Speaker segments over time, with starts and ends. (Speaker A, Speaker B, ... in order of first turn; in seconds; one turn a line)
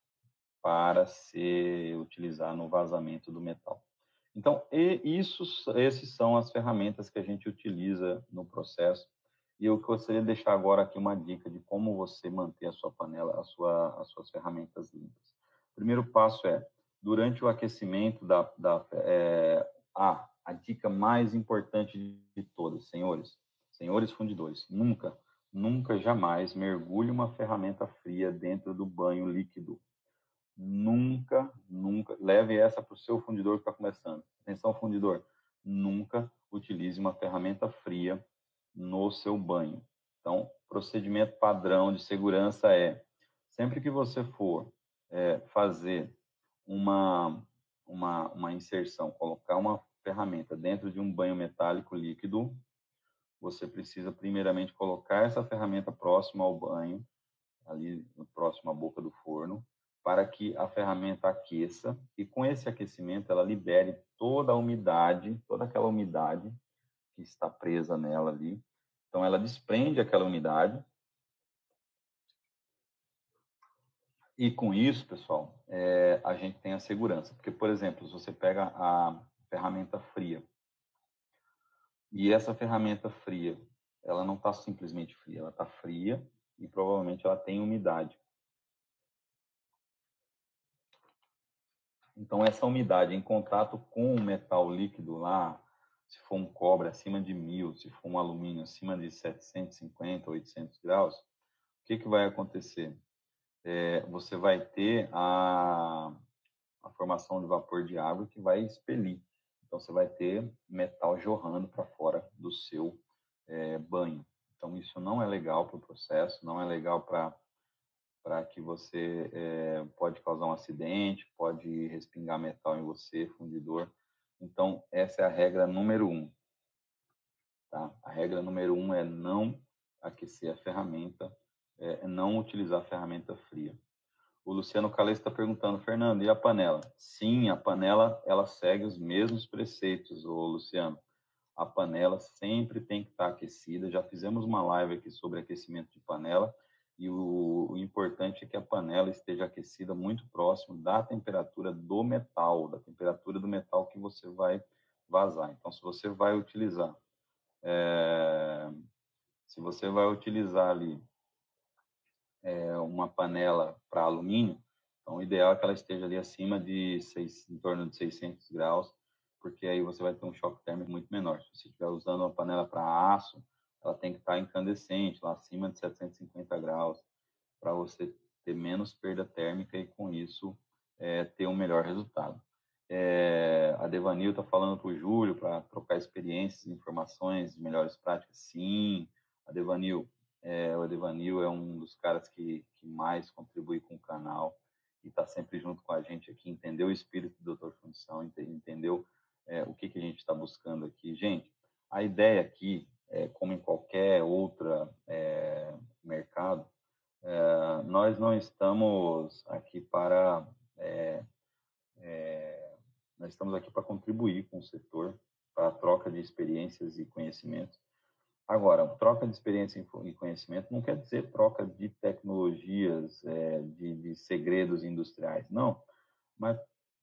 Speaker A: 0.6-29.8
Speaker A: 30.6-38.2
Speaker A: 38.7-52.6
Speaker A: 53.4-57.0
Speaker A: 57.7-66.5
Speaker A: 67.1-70.9
Speaker A: 74.4-80.5
Speaker A: 82.1-88.2
Speaker A: 92.2-101.2
Speaker A: 101.8-103.0
Speaker A: 103.6-106.2
Speaker A: 106.8-117.4
Speaker A: 118.2-126.3
Speaker A: 127.7-133.8
Speaker A: 134.4-141.0
Speaker A: 141.6-157.0
Speaker A: 157.6-158.8
Speaker A: 159.5-161.0
Speaker A: 162.4-177.1
Speaker A: 177.6-206.7
Speaker A: 207.2-211.2
Speaker A: 212.0-217.8
Speaker A: 218.5-225.8
Speaker A: 226.4-226.6